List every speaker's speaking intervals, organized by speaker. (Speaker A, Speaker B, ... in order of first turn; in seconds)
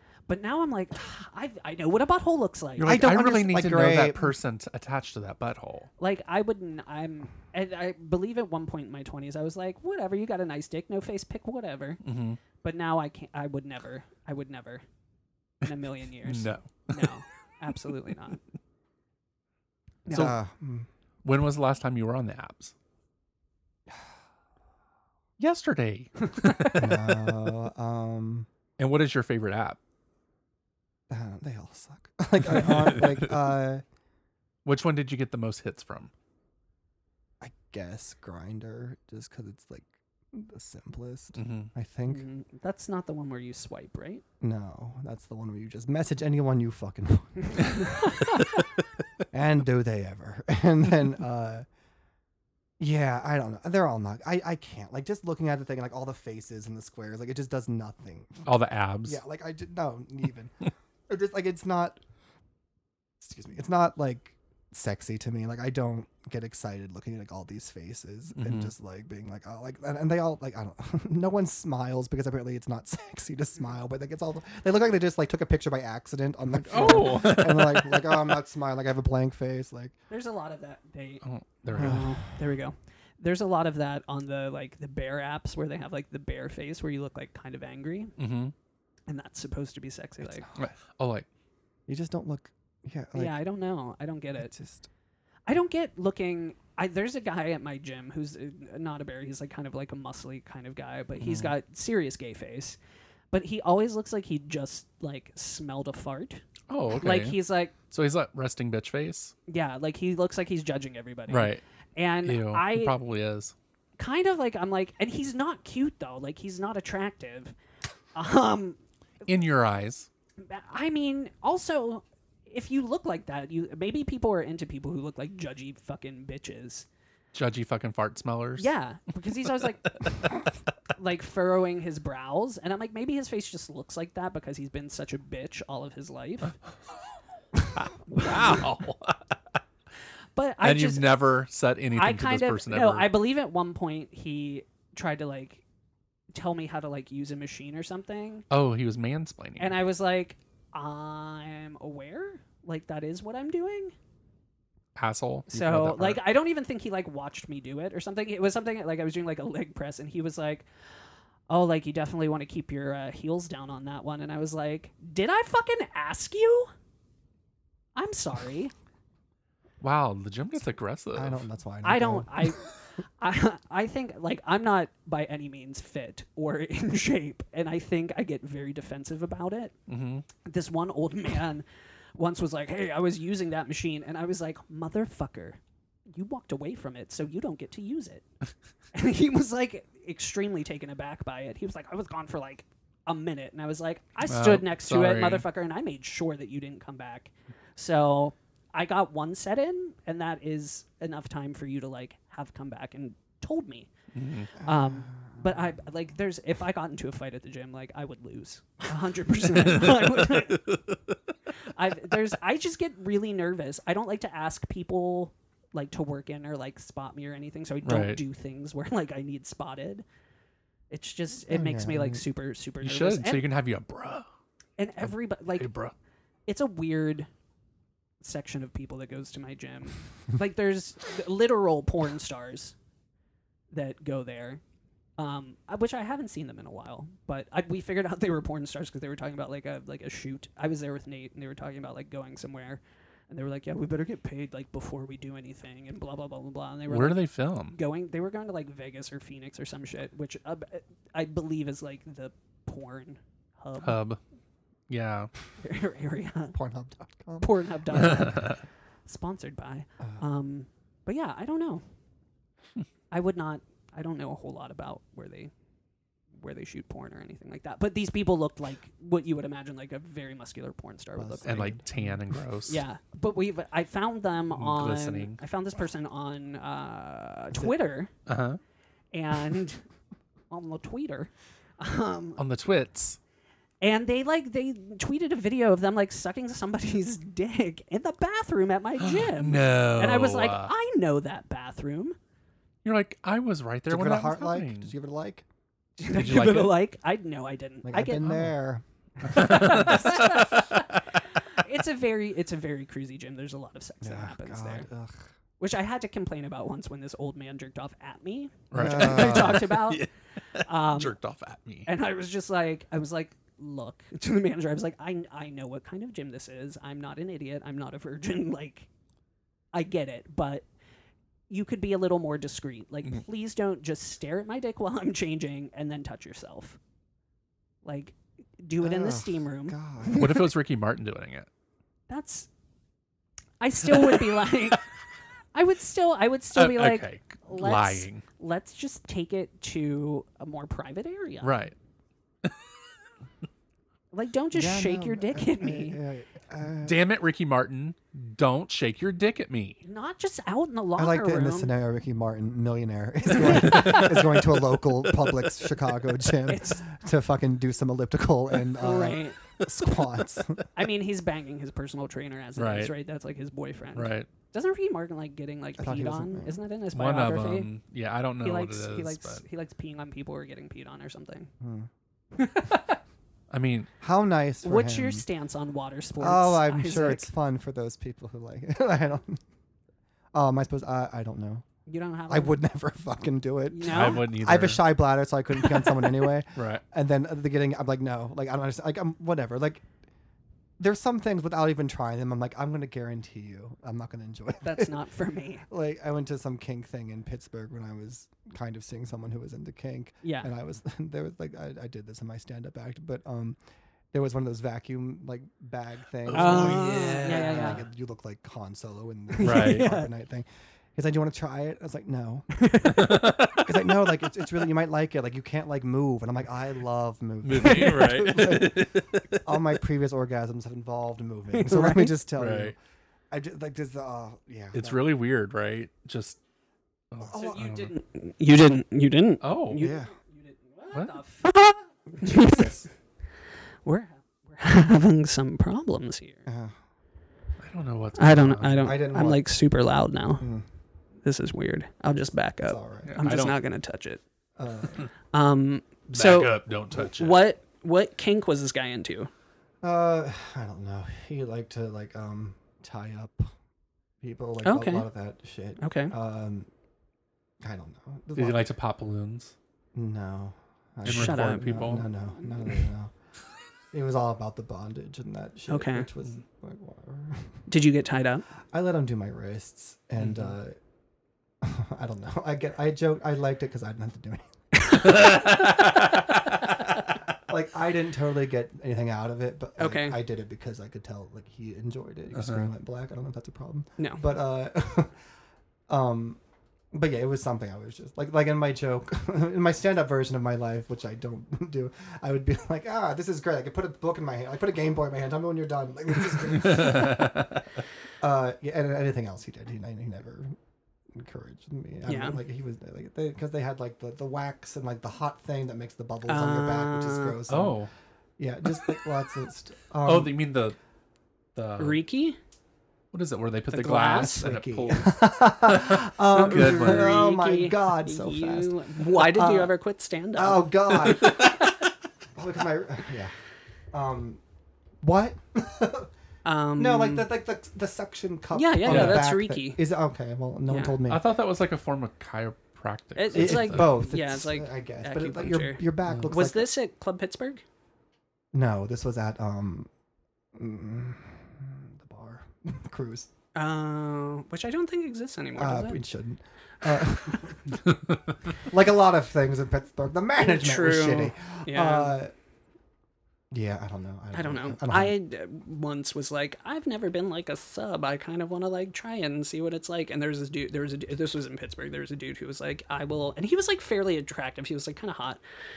Speaker A: 0.3-3.0, 6.0-12.0, 12.6-14.8, 15.6-18.4, 20.1-20.4, 26.4-26.7, 42.1-44.2, 80.1-88.1, 89.1-90.5, 93.2-94.5, 95.5-102.8, 103.3-106.4, 107.0-107.7, 109.5-113.0, 114.0-117.5, 118.2-118.8, 120.4-126.9, 128.6-130.1, 131.0-136.6, 140.4-141.2, 141.9-145.6, 146.3-148.4, 149.6-153.9, 155.5-160.7, 161.5-166.7, 167.9-168.7, 171.8-172.7, 173.2-179.7, 180.4-188.2, 188.9-203.9, 204.6-210.8, 211.7-220.1, 220.9-223.5, 224.8-225.7, 226.5-227.3, 228.2-232.8, 233.7-234.6, 235.2-254.0, 255.6-256.6, 257.4-261.8, 263.1-265.5, 266.4-271.8, 272.7-278.1, 279.1-279.9, 280.5-282.4, 283.8-292.2, 296.0-298.3, 299.3-301.0, 301.6-304.9, 305.6-310.1, 310.6-311.2, 311.9-318.9, 319.7-320.7, 321.5-326.8, 327.8-330.4, 332.1-332.5, 333.6-334.8, 335.5-341.6, 344.1-346.0, 349.8-351.7, 353.5-354.1, 356.5-356.8, 358.8-359.4, 360.7-367.7, 368.4-371.5, 372.4-373.0, 374.6-377.3, 381.9-382.6, 383.7-384.3, 385.8-386.0, 394.6-395.7, 400.2-400.5, 406.3-407.8, 409.3-410.1, 412.6-413.3, 421.5-422.2, 427.3-432.8, 433.9-436.5, 438.2-440.5, 441.2-444.2, 445.3-449.3, 454.6-455.1, 455.8-456.2, 461.1-462.0, 465.7-466.1, 467.7-468.4, 475.1-475.5, 479.8-480.2, 484.0-484.2, 502.1-502.4, 506.3-507.4, 511.8-512.4, 513.7-514.5, 516.4-521.5, 526.5-527.3, 528.5-529.8, 530.7-531.0, 533.2-537.6, 543.5-546.0, 550.4-552.2, 554.3-565.4
Speaker B: 2.8-5.9, 12.0-12.4, 16.2-17.1, 21.2-22.7, 25.4-27.2, 28.8-29.8, 34.6-36.1, 41.4-41.7, 58.5-59.2, 68.4-68.7, 76.6-78.3, 81.2-82.1, 88.2-88.5, 90.6-91.3, 101.2-101.5, 106.7-109.3, 111.3-111.6, 112.2-113.5, 119.3-120.1, 127.3-128.7, 137.8-139.3, 140.6-143.2, 148.5-149.8, 155.0-156.2, 169.8-171.4, 179.9-180.3, 194.3-195.4, 204.1-204.5, 209.8-211.0, 217.8-218.2, 222.8-224.3, 225.0-225.9, 246.9-247.8, 253.8-254.2, 254.9-255.3, 257.9-258.6, 271.4-272.8, 274.5-275.4, 278.3-278.6, 282.4-283.2, 289.0-290.7, 292.8-294.9, 296.1-296.8, 298.2-298.5, 299.2-300.9, 308.7-311.9, 330.2-331.5, 336.5-338.2, 341.4-341.7, 346.8-349.8, 362.6-362.9, 364.0-364.3, 366.9-369.4, 373.5-373.9, 383.8-384.9, 386.6-386.8, 406.3-407.8, 409.4-409.9, 412.9-413.8, 417.4-419.6, 422.4-422.8, 424.7-426.4, 427.1-427.9, 429.4-429.9, 430.9-431.2, 437.6-438.9, 443.1-443.6, 446.1-447.5, 458.4-459.5, 461.1-462.1, 470.2-470.5, 474.9-476.6, 482.4-482.7, 496.9-497.5, 507.5-507.9, 510.0-510.8, 511.6-512.0, 513.1-517.3, 521.1-521.6, 528.9-529.3, 531.1-533.9, 536.0-536.3
Speaker C: 2.9-4.3, 20.1-20.9, 26.7-28.5, 31.1-33.8, 37.4-42.2, 44.4-48.4, 49.3-51.7, 52.8-58.5, 59.0-62.0, 63.2-80.0, 81.8-82.2, 90.2-90.6, 91.9-93.4, 94.4-94.9, 171.1-172.6, 204.6-205.4, 221.5-222.2, 256.5-257.5, 271.2-272.0, 293.9-295.4, 297.8-300.0, 304.0-305.3, 308.7-309.7, 328.8-330.4, 344.5-347.0, 351.0-360.6, 365.8-366.6, 371.6-371.9, 374.0-375.2, 376.2-379.4, 380.3-381.6, 382.3-389.9, 390.8-394.9, 395.7-403.6, 404.1-422.8, 423.3-425.1, 427.2-427.6, 429.8-430.1, 432.1-432.9, 436.5-436.8, 438.6-439.4, 440.4-440.7, 442.6-443.2, 444.6-445.1, 449.8-453.5, 454.2-456.7, 457.6-458.7, 459.9-463.1, 463.9-467.6, 468.7-470.8, 471.6-474.5, 477.4-485.2, 485.9-486.4, 486.9-497.5, 498.2-500.6, 501.1-507.8, 508.4-510.4, 514.4-519.7, 520.4-521.6, 522.4-523.3, 523.9-524.4, 525.0-526.1, 526.8-531.3, 533.3-536.7, 538.5-539.9, 540.6-543.3, 545.6-547.8, 548.6-552.3, 553.5-555.2